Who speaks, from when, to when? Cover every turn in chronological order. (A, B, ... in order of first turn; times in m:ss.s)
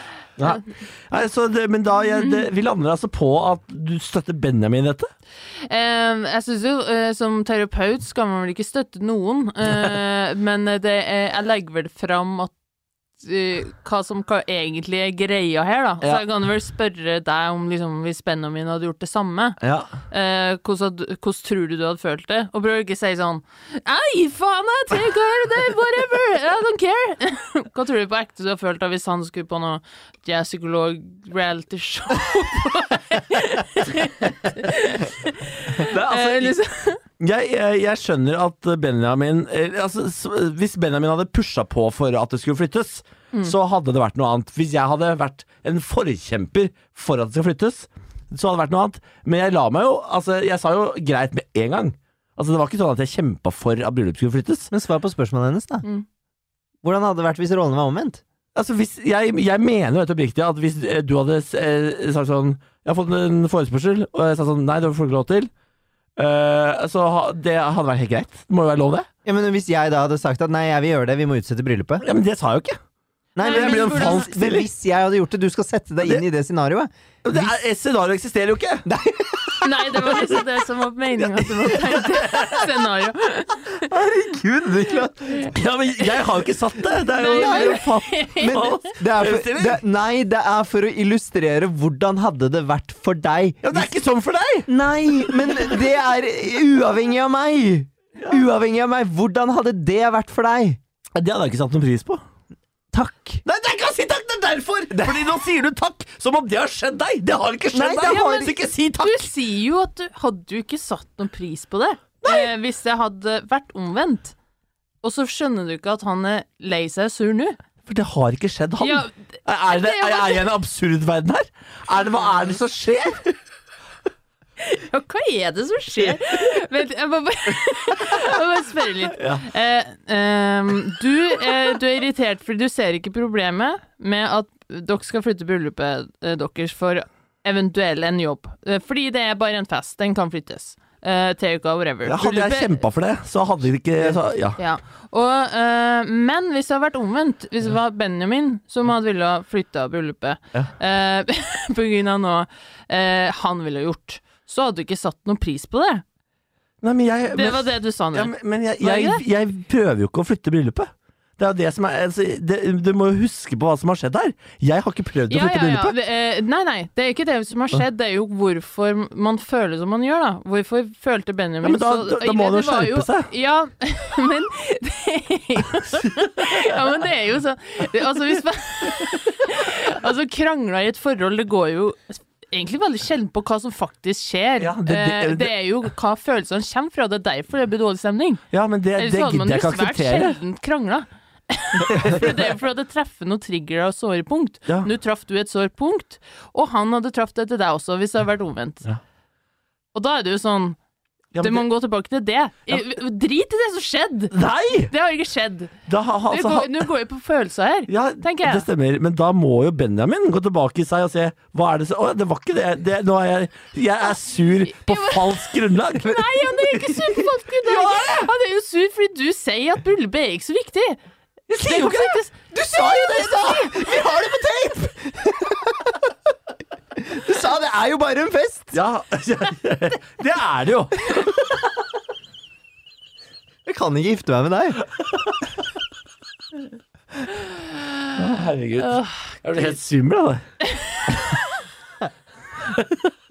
0:00.4-0:05.1 A
0:05.7-0:12.5 B
0:13.2-0:19.6 B
0:19.6-0:19.9 A
0:20.1-0:37.0 B
0:35.8-0:36.6 A
0:37.2-0:54.7 A
0:54.7-0:55.8 C
0:56.8-0:58.2 C
0:58.5-1:05.5 A
1:06.2-1:09.1 A
1:09.2-1:12.0 C
1:12.0-1:12.8 A
1:13.3-1:17.5 C
1:13.4-1:14.3 B
1:13.4-1:14.7 A
1:17.2-1:18.8 A
1:18.8-1:20.0 C
1:19.6-1:23.9 B
1:21.4-1:22.7 A
1:23.9-1:25.6 C
1:25.4-1:29.8 A
1:27.2-1:28.8 B
1:27.3-1:27.8 C
1:28.4-1:33.9 C
1:33.6-1:34.7 A
1:34.7-1:40.8 C
1:41.2-1:42.2 A
1:42.9-1:43.4 C
1:43.4-1:49.3 A
1:47.7-1:48.5 C
1:48.0-1:54.4 B
1:52.2-1:52.5 A
1:55.0-1:57.6 B
1:57.9-2:03.2 A
1:58.8-1:59.1 B
1:59.7-2:00.5 B
2:04.6-2:22.8 B
2:09.1-2:09.4 A
2:22.0-2:24.6 A
2:24.6-2:36.0 B
2:36.8-2:45.9 A
2:37.3-2:39.2 B
2:45.3-3:08.4 B
2:51.6-2:53.3 A
3:04.6-3:05.5 A
3:08.5-3:10.4 A
3:09.0-3:18.8 B
3:11.9-3:12.5 A
3:19.9-3:20.8 B
3:21.3-3:21.6 A
3:21.4-3:24.3 B
3:24.3-3:24.9 A
3:24.9-3:25.7 B
3:25.9-3:26.8 A
3:26.3-3:28.6 B
3:27.9-3:38.3 A
3:34.7-3:41.0 B
3:41.5-3:42.2 A
3:41.5-3:44.0 B
3:42.5-3:44.3 C
3:42.7-3:44.9 A
3:45.0-3:46.1 C
3:46.9-3:48.8 C
3:48.7-3:51.6 A
3:53.6-3:54.8 C
3:58.1-4:00.4 A
3:58.8-3:59.3 B
4:00.7-4:01.0 B
4:01.1-4:01.4 A
4:02.6-4:03.1 A